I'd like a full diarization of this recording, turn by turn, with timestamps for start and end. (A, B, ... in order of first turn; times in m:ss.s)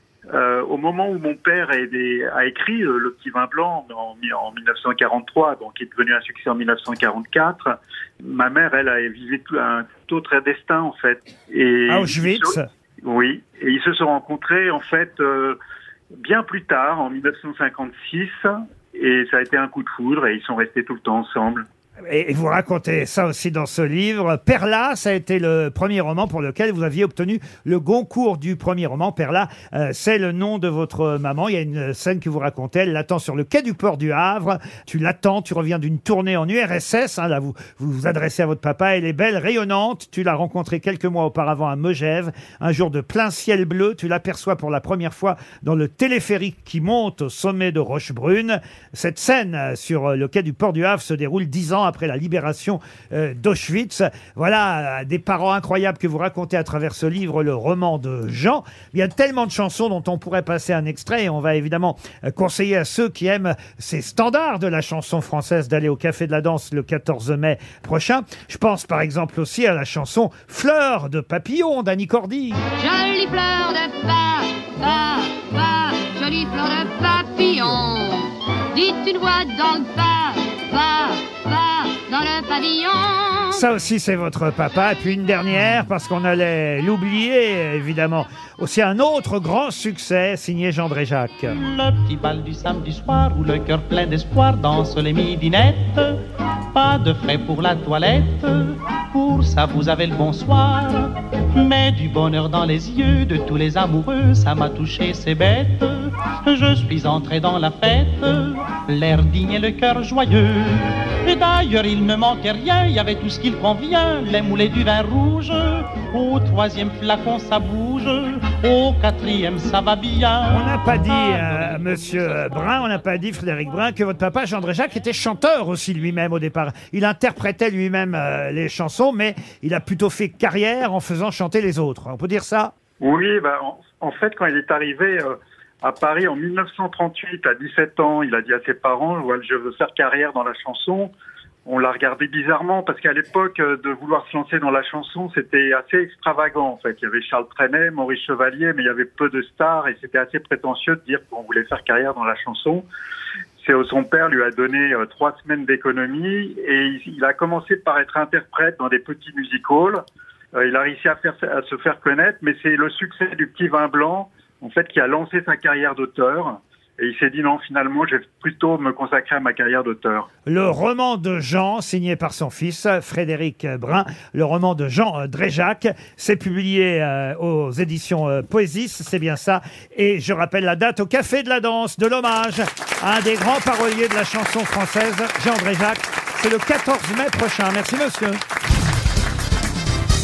0:00.3-0:15.6 A
0:11.9-0:12.7 B
0:16.2-0:21.6 A
0:22.1-1:12.6 B
1:12.8-1:23.6 C
1:23.5-1:31.5 B
1:31.5-1:36.2 D
1:36.7-2:01.5 D
2:00.5-2:12.7 B
2:13.0-2:21.1 A
2:21.6-2:32.8 A
2:33.6-2:40.0 A
2:40.5-2:50.3 A
2:50.4-3:08.4 B